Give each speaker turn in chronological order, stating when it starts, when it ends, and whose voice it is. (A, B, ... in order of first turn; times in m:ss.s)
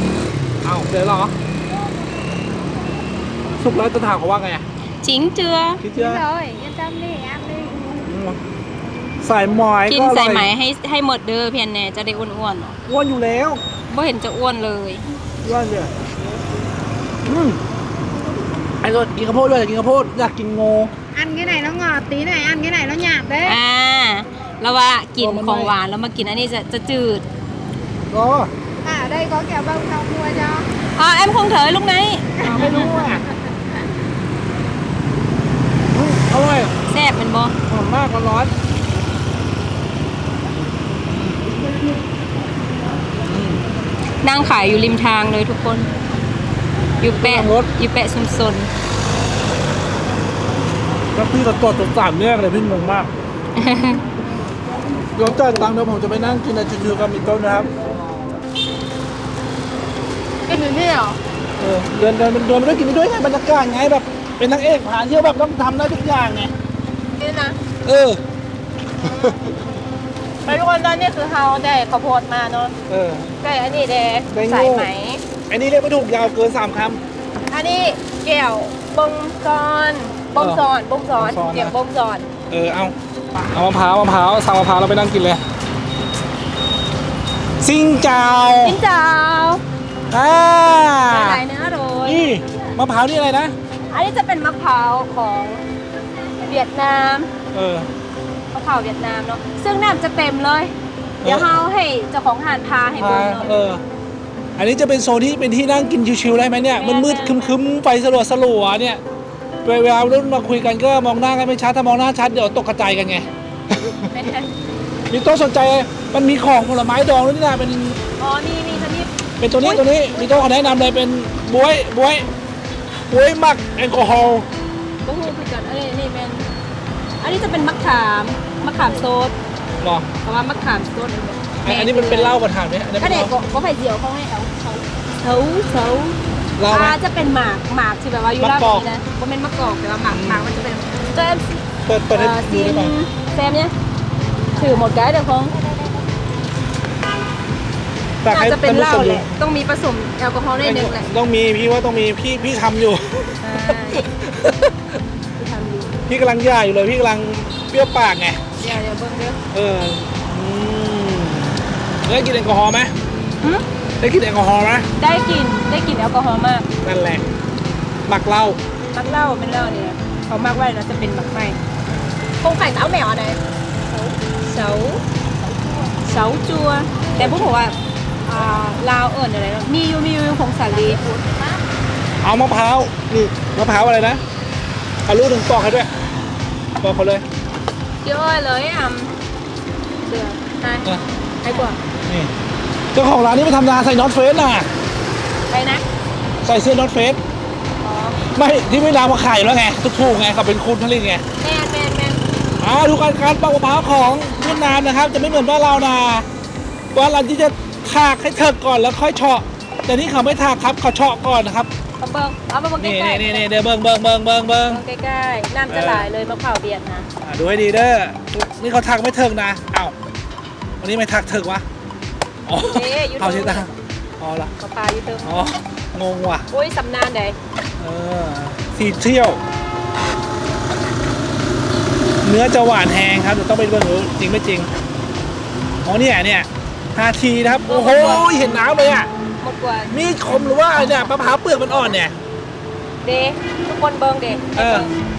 0:00.6-0:01.4 A
0:03.6-0:04.6 A
0:05.0-0:05.8 B
0:05.8-0:06.2 A
0:05.9-0:08.1 C
0:08.1-0:08.4 A
0:09.2-0:10.5 A
0:09.9-0:12.8 B
0:12.9-0:13.6 A
0:13.9-0:15.0 B
0:15.4-0:15.9 A
0:17.3-0:17.6 A
0:18.8-0:20.9 A
0:21.1-0:23.6 C
0:23.4-0:27.2 B
0:25.2-0:25.7 A
0:28.1-0:28.5 A
0:28.8-0:30.7 C
0:31.0-0:33.0 B
0:32.4-0:33.4 C
0:32.4-0:33.2 A
0:35.9-0:36.7 A
0:36.9-0:37.6 B
0:37.7-0:38.5 A
0:41.1-0:41.4 A
0:43.2-0:43.6 A
0:44.2-0:45.9 B
0:47.0-0:48.7 B
0:47.2-0:47.7 A
0:51.1-0:53.1 A
0:53.6-0:54.0 B
0:55.2-0:57.7 A
1:00.5-1:01.1 C
1:00.5-1:01.2 B
1:01.6-1:06.5 A
1:07.2-1:07.6 B
1:07.8-1:08.2 A
1:09.0-1:09.5 A
1:10.4-1:12.7 B
1:12.9-1:13.4 A
1:13.4-1:15.2 B
1:14.3-1:14.9 A
1:15.5-1:17.0 A
1:17.5-1:22.3 B
1:20.4-1:20.6 A
1:21.2-1:21.7 A
1:22.5-1:25.4 A
1:27.6-1:28.8 A
1:28.6-1:29.6 B
1:30.1-1:31.4 A
1:31.1-1:32.4 B
1:32.0-1:33.5 A
1:33.9-1:35.6 B
1:36.4-1:37.3 B
1:37.5-1:37.9 A
1:38.5-1:40.7 B
1:41.2-1:41.6 A
1:41.2-1:43.5 B
1:43.0-1:43.8 A
1:44.6-1:49.0 A
1:46.6-1:47.6 B
1:49.6-1:54.1 A
1:54.1-1:54.5 B
1:55.1-1:58.0 A
1:58.2-1:59.8 B
1:59.4-2:02.3 A
2:03.1-2:04.5 A
2:05.0-2:06.5 B
2:07.2-2:09.4 B
2:09.8-2:10.1 A
2:10.2-2:12.4 B
2:11.6-2:13.3 A
2:13.0-2:23.7 B
2:16.6-2:17.0 A
2:18.4-2:18.9 A
2:20.1-2:20.4 A
2:21.9-2:22.9 A
2:24.6-2:25.6 B
2:28.2-2:29.3 A
2:28.3-2:31.1 B
2:30.6-2:35.0 A
2:33.4-2:34.1 B
2:35.4-2:36.0 B
2:36.1-2:38.4 A
2:38.6-2:39.4 B
2:39.5-2:42.9 A
2:44.0-2:44.9 A
2:45.0-2:46.7 B
2:46.8-2:47.2 A
2:48.1-2:48.6 A
2:48.9-2:51.6 B
2:52.4-2:55.0 B
2:55.9-3:01.2 B
3:00.9-3:01.6 C
3:02.2-3:04.2 A
3:05.1-3:05.9 A
3:06.8-3:07.3 A
3:08.0-3:09.1 B
3:10.1-3:10.9 B
3:11.4-3:11.8 B
3:12.1-3:12.3 A
3:12.9-3:14.7 A
3:15.5-3:15.8 B
3:16.4-3:17.2 A
3:17.8-3:18.2 B
3:18.4-3:21.2 A
3:21.4-3:22.2 B
3:22.6-3:26.3 A
3:26.9-3:31.7 A
3:32.0-3:33.5 B
3:32.8-3:34.8 A
3:34.7-3:37.1 B
3:35.7-3:36.1 A
3:37.2-3:40.0 A
3:40.8-3:41.7 A
3:42.5-3:44.5 A
3:42.6-3:43.7 B
3:44.6-3:45.4 B
3:45.2-3:46.5 A
3:46.5-3:47.4 B
3:47.8-3:49.4 A
3:52.2-3:54.7 A
3:55.8-3:59.1 A
3:57.7-3:58.3 B
3:59.4-3:59.9 B
3:59.9-4:02.2 A
4:00.7-4:01.1 B
4:01.7-4:02.0 B
4:03.0-4:04.9 B
4:04.6-4:04.9 A